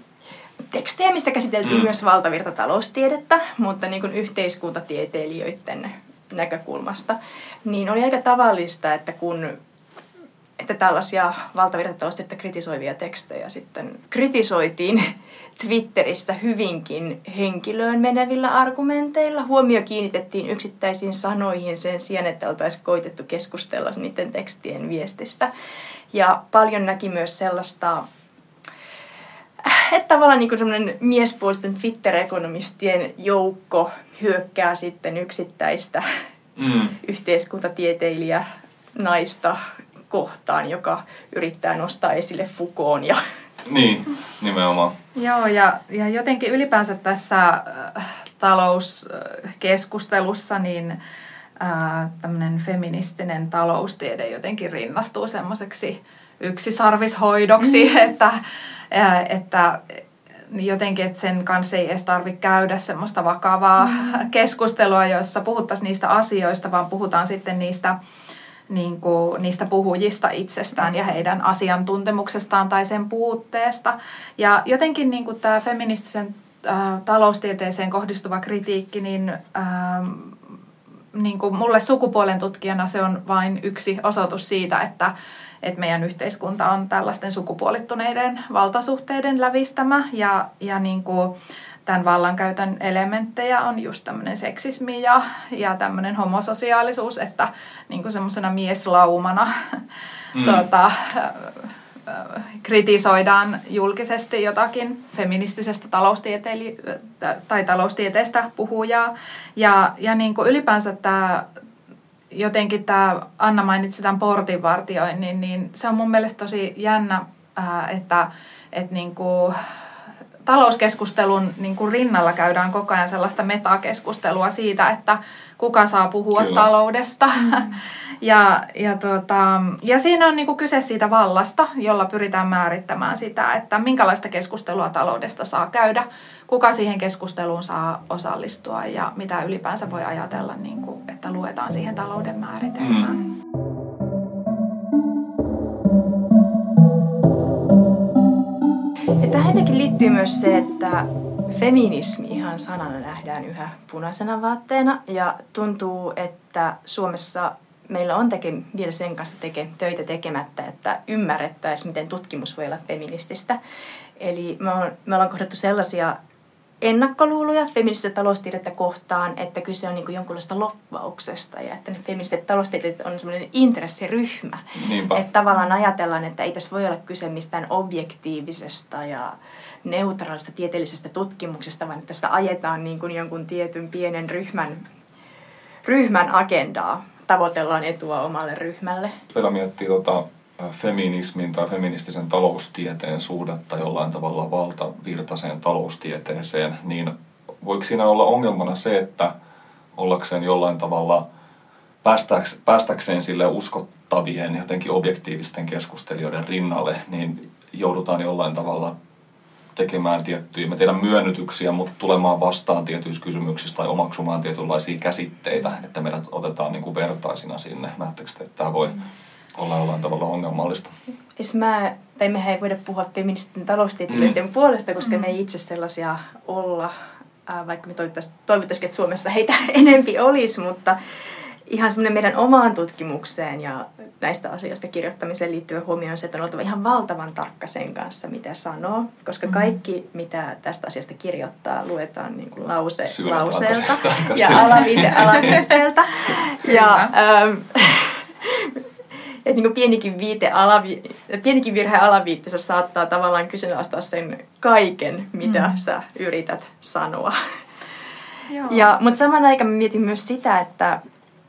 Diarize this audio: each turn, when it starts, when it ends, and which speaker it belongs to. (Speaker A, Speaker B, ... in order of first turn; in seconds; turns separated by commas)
Speaker A: 0.7-9.6, Speaker A: 10.6-25.5, Speaker A: 26.1-28.1, Speaker A: 29.6-36.0, Speaker B: 36.6-37.0, Speaker A: 37.0-43.2, Speaker B: 43.6-44.9, Speaker C: 45.1-51.0, Speaker C: 51.6-67.9, Speaker A: 57.6-57.9, Speaker C: 68.7-80.4, Speaker C: 81.1-85.1, Speaker C: 85.6-91.3, Speaker C: 91.8-99.8, Speaker B: 100.3-100.6, Speaker C: 100.3-111.5, Speaker C: 112.3-119.6, Speaker C: 120.5-143.2, Speaker B: 126.3-126.7, Speaker B: 142.8-143.1, Speaker A: 149.2-163.6, Speaker A: 164.2-166.1, Speaker A: 166.8-184.8, Speaker B: 174.8-175.2, Speaker A: 185.8-189.2, Speaker B: 189.3-199.3, Speaker B: 199.9-201.2, Speaker B: 202.0-208.9, Speaker B: 209.7-219.0, Speaker B: 219.5-220.9, Speaker A: 221.4-226.9, Speaker B: 224.1-224.4, Speaker A: 227.4-231.0, Speaker A: 231.7-257.4, Speaker B: 243.1-245.6, Speaker C: 246.7-247.1, Speaker C: 258.5-258.9, Speaker A: 258.7-261.0